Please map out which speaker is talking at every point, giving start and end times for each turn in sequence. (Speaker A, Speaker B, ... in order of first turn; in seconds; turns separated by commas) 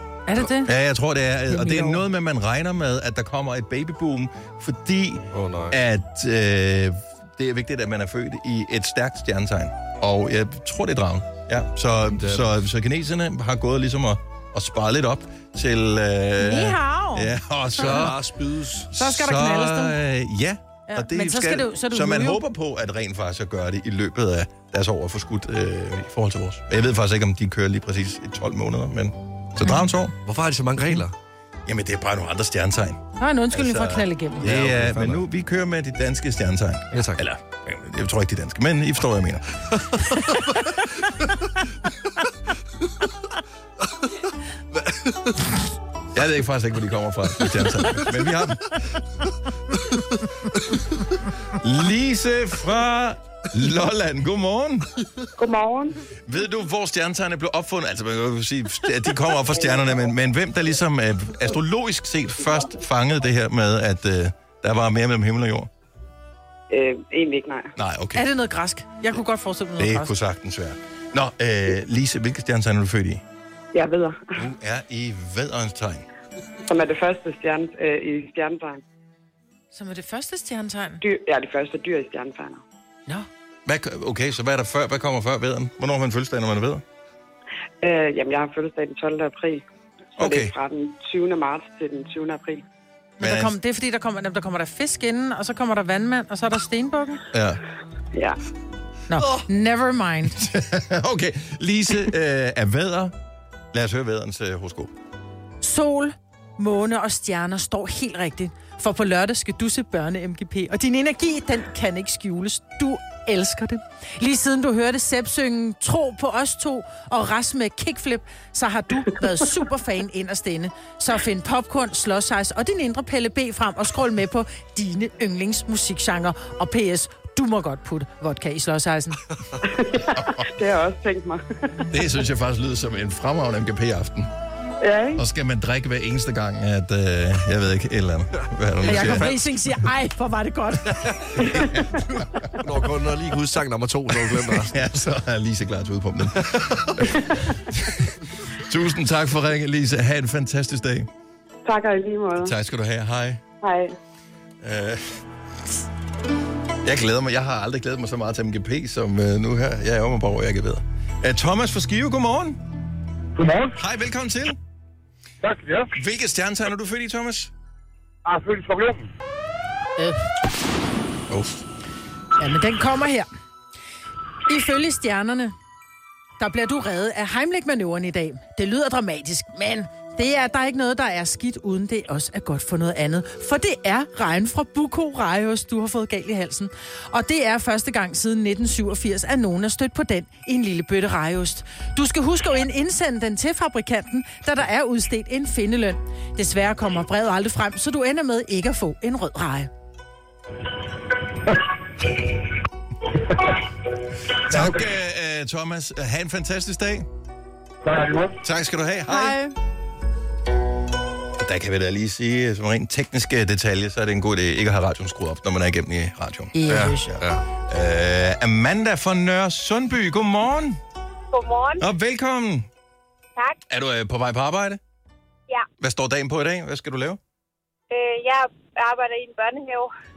Speaker A: 0.3-0.7, Speaker B: 0.4-18.2, Speaker A: 1.5-2.0, Speaker C: 5.3-5.8, Speaker C: 12.2-12.5, Speaker A: 16.4-18.1, Speaker C: 17.8-18.9, Speaker B: 18.9-30.1, Speaker A: 19.0-19.9, Speaker A: 20.9-22.4, Speaker C: 30.2-31.1, Speaker B: 31.6-39.6, Speaker A: 33.2-34.5, Speaker C: 34.4-35.2, Speaker C: 36.9-37.2, Speaker C: 39.8-40.6, Speaker C: 44.7-45.5, Speaker B: 46.1-48.7, Speaker C: 49.9-50.8, Speaker B: 51.6-54.9, Speaker D: 55.4-56.0, Speaker B: 56.3-65.7, Speaker D: 66.7-67.7, Speaker B: 67.8-68.3, Speaker A: 68.2-70.1, Speaker B: 69.8-73.2, Speaker D: 73.7-74.4, Speaker B: 74.4-76.1, Speaker D: 76.7-78.8, Speaker A: 79.7-81.0, Speaker D: 81.0-82.6, Speaker B: 83.7-86.8, Speaker D: 87.8-89.6, Speaker D: 90.2-92.6, Speaker B: 90.2-90.5, Speaker B: 93.2-93.5, Speaker A: 93.2-97.2, Speaker B: 97.3-97.6, Speaker D: 98.1-98.4, Speaker A: 99.1-100.4, Speaker B: 100.4-103.2, Speaker B: 103.7-104.9, Speaker A: 105.6-129.2, Speaker D: 129.6-131.9, Speaker B: 130.2-130.4, Speaker B: 131.9-134.3, Speaker D: 134.8-135.2, Speaker B: 135.2-139.4, Speaker C: 138.8-139.4, Speaker A: 138.9-141.1, Speaker C: 141.0-141.5, Speaker B: 141.4-142.2, Speaker C: 142.6-144.8, Speaker B: 144.3-151.1, Speaker C: 146.4-147.1, Speaker D: 151.7-152.5, Speaker B: 152.4-153.4, Speaker D: 153.6-154.0, Speaker B: 154.6-155.2, Speaker B: 156.8-162.6, Speaker E: 163.4-163.8, Speaker B: 163.8-164.6, Speaker E: 165.4-165.9, Speaker B: 165.9-167.5, Speaker E: 168.3-169.1, Speaker A: 170.0-170.3, Speaker B: 171.3-171.6, Speaker A: 172.4-173.3, Speaker A: 174.5-175.6, Speaker A: 176.4-199.7, Speaker B: 204.3-207.1, Speaker E: 207.8-208.4, Speaker B: 208.4-209.4, Speaker A: 209.1-209.5, Speaker B: 211.4-220.8, Speaker A: 216.5-217.1, Speaker C: 216.7-217.4, Speaker F: 221.3-221.8, Speaker B: 221.8-222.7, Speaker B: 223.7-224.8, Speaker B: 225.8-227.2, Speaker F: 227.9-229.9